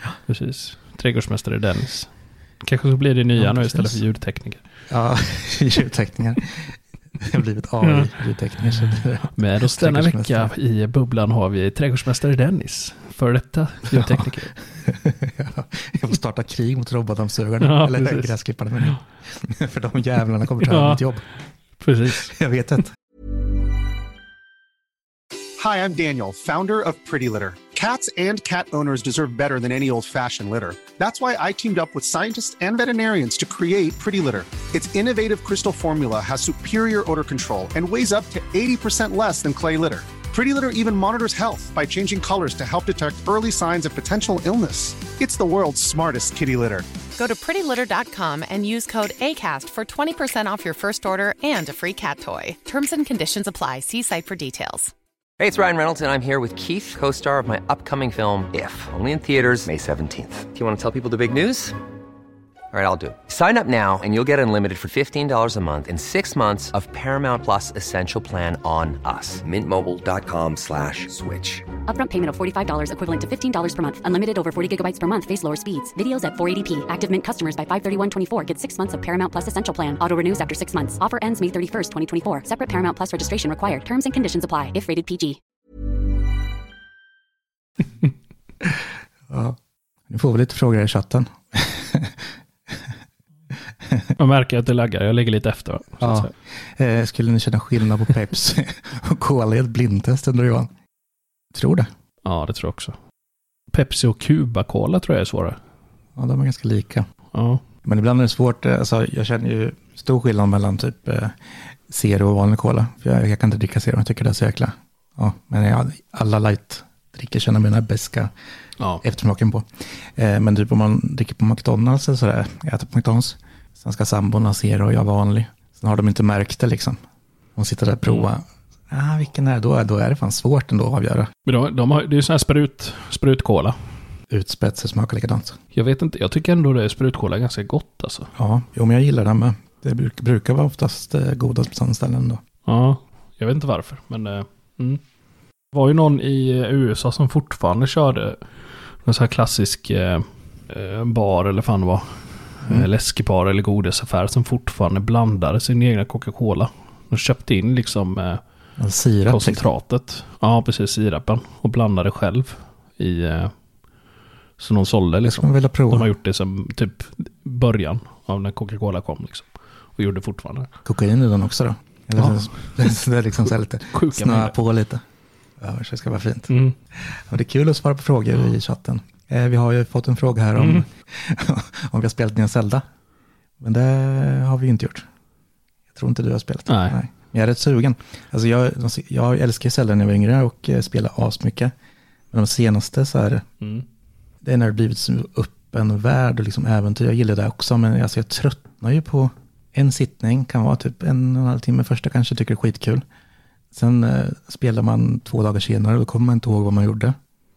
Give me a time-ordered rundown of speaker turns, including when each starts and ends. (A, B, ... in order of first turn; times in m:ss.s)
0:00.2-0:04.6 A
0:03.4-0:04.0 B
0:04.9-0:10.5 B
0:07.8-0:08.1 A
0:09.4-0:14.6 A
0:13.9-0:21.3 B
0:17.6-0:19.0 A
0:20.6-0:21.0 A
0:21.8-0:22.3 A
0:22.1-0:22.9 B
0:25.6-0:46.9 C
0:47.2-0:54.9 D
0:55.4-1:01.8 E
1:02.7-1:11.6 E
1:11.9-1:25.4 F
1:29.3-1:32.9 B
1:33.8-1:34.1 B
1:34.2-1:36.3 A
1:36.0-1:40.7 B
1:41.5-1:41.9 B
1:42.2-1:43.0 A
1:43.7-1:45.6 A
1:46.2-1:47.0 B
1:47.3-1:47.6 A
1:47.8-1:58.3 B
1:59.0-2:07.0 B
2:07.6-2:11.3 B
2:11.4-2:13.9 A
2:14.3-2:15.6 B
2:15.7-2:18.3 A
2:18.4-2:22.4 B
2:22.6-2:25.0 A
2:25.7-2:38.4 A
2:38.8-2:39.7 B
2:39.2-2:43.6 A
2:44.6-2:50.7 A
2:45.2-2:46.1 B
2:50.8-2:55.0 B
2:52.2-2:52.9 A
2:53.9-2:54.5 A
2:55.6-3:02.8 B
2:56.5-2:56.7 A
3:00.6-3:00.8 A
3:03.6-3:05.1 B
3:05.9-3:11.7 B
3:06.7-3:07.0 A
3:12.3-3:13.5 B
3:14.4-3:23.0 B
3:23.7-3:27.2 B